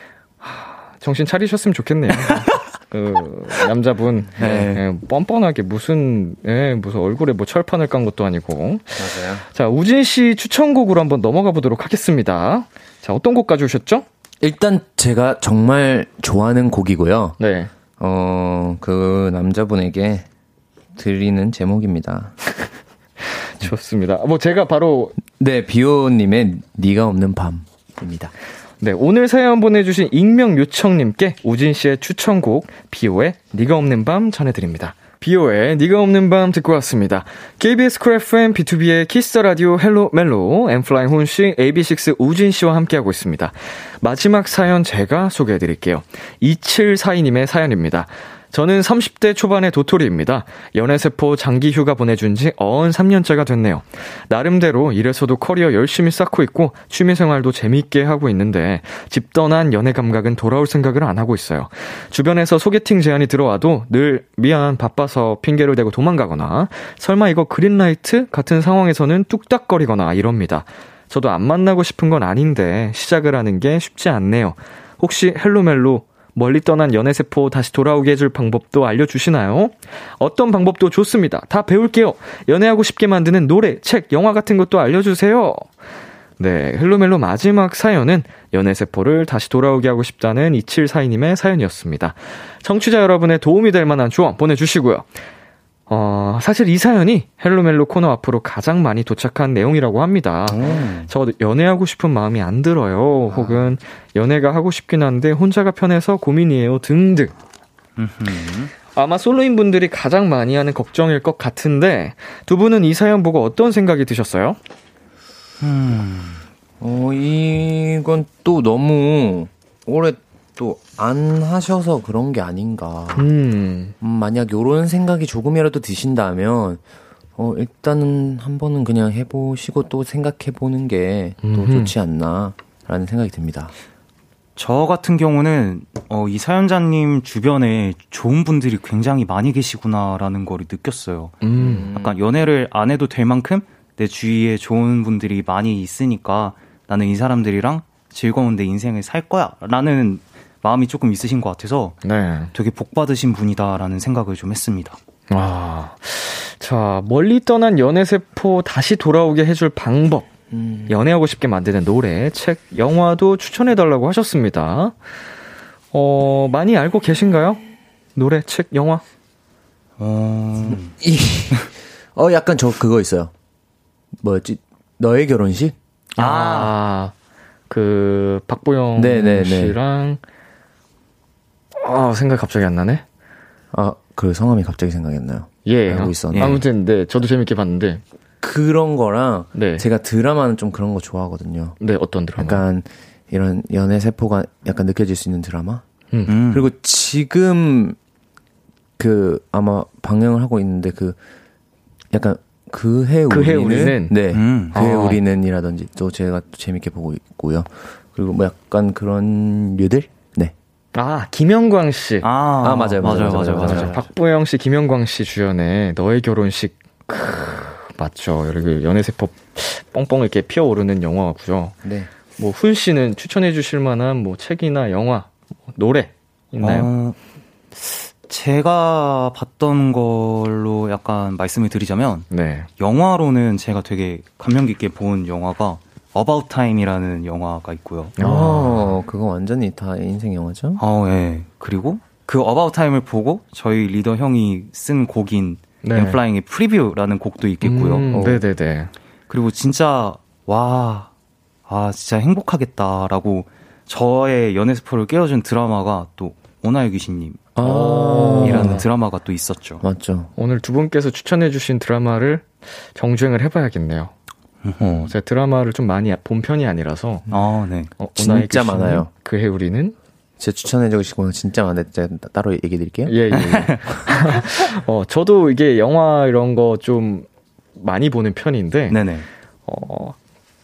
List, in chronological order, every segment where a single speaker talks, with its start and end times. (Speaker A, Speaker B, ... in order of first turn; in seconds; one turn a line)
Speaker A: 0.4-14.1
Speaker B: 4.4-4.7
Speaker C: 4.4-4.8
Speaker B: 8.9-9.4
Speaker B: 14.4-17.4
Speaker A: 17.4-17.7
Speaker B: 18.0-20.2
Speaker B: 20.9-22.3
Speaker A: 23.2-25.2
Speaker B: 25.3-28.3
Speaker A: 28.8-85.7
Speaker A: 86.4-95.1
Speaker A: 95.9-107.3
Speaker C: 100.5-101.0
Speaker B: 100.6-101.0
Speaker B: 103.3-103.7
Speaker C: 108.0-108.7
Speaker A: 108.9-114.6
Speaker C: 115.6-116.4
Speaker B: 116.8-123.3
Speaker A: 123.1-123.9
Speaker B: 124.0-126.8
Speaker B: 127.4-133.7
Speaker A: 131.4-131.9
Speaker C: 134.6-141.4
Speaker A: 141.4-141.9
Speaker B: 141.6-142.2
Speaker C: 141.9-152.0
Speaker A: 152.0-152.5
Speaker C: 152.5-155.0
Speaker A: 155.3-160.3
Speaker B: 160.5-160.9
Speaker A: 160.9-164.9
Speaker A: 165.9-167.6
Speaker A: 168.1-169.0
Speaker C: 170.0-170.9
Speaker B: 170.7-173.3
Speaker B: 174.2-175.7
Speaker A: 176.2-177.1
Speaker C: 176.2-176.7
Speaker A: 177.7-180.2
Speaker B: 178.9-179.8
Speaker A: 181.8-183.0
Speaker B: 183.7-186.6
Speaker A: 185.6-188.0
Speaker C: 186.3-186.6
Speaker B: 188.4-191.8
Speaker A: 189.5-189.8
Speaker A: 191.8-192.6
Speaker B: 192.4-195.8
Speaker C: 196.3-196.7
Speaker B: 196.5-198.0
Speaker B: 199.0-201.2
Speaker B: 202.1-210.5
Speaker A: 203.3-204.1
Speaker C: 204.3-204.7
Speaker A: 204.7-205.2
Speaker A: 210.9-212.3
Speaker C: 212.2-214.0
Speaker B: 212.6-213.9
Speaker A: 213.6-221.8
Speaker B: 221.8-222.1
Speaker A: 222.4-226.9
Speaker C: 226.6-227.2
Speaker C: 227.8-238.2
Speaker A: 232.3-232.7
Speaker A: 238.2-239.0
Speaker B: 238.2-240.8
Speaker C: 240.8-248.0
Speaker A: 245.8-246.2
Speaker A: 247.6-248.9
Speaker B: 248.1-248.4
Speaker C: 249.3-251.1
Speaker C: 251.7-257.4
Speaker B: 257.5-258.8
Speaker A: 257.6-258.8
Speaker C: 258.4-259.8
Speaker B: 259.8-260.3
Speaker A: 260.4-264.1
Speaker C: 264.6-265.1
Speaker A: 264.8-267.2
Speaker C: 267.3-267.9
Speaker A: 268.0-269.9
Speaker B: 268.2-269.1
Speaker B: 270.4-273.5
Speaker A: 273.1-279.0
Speaker C: 273.3-273.8
Speaker C: 278.9-279.2
Speaker A: 279.7-280.1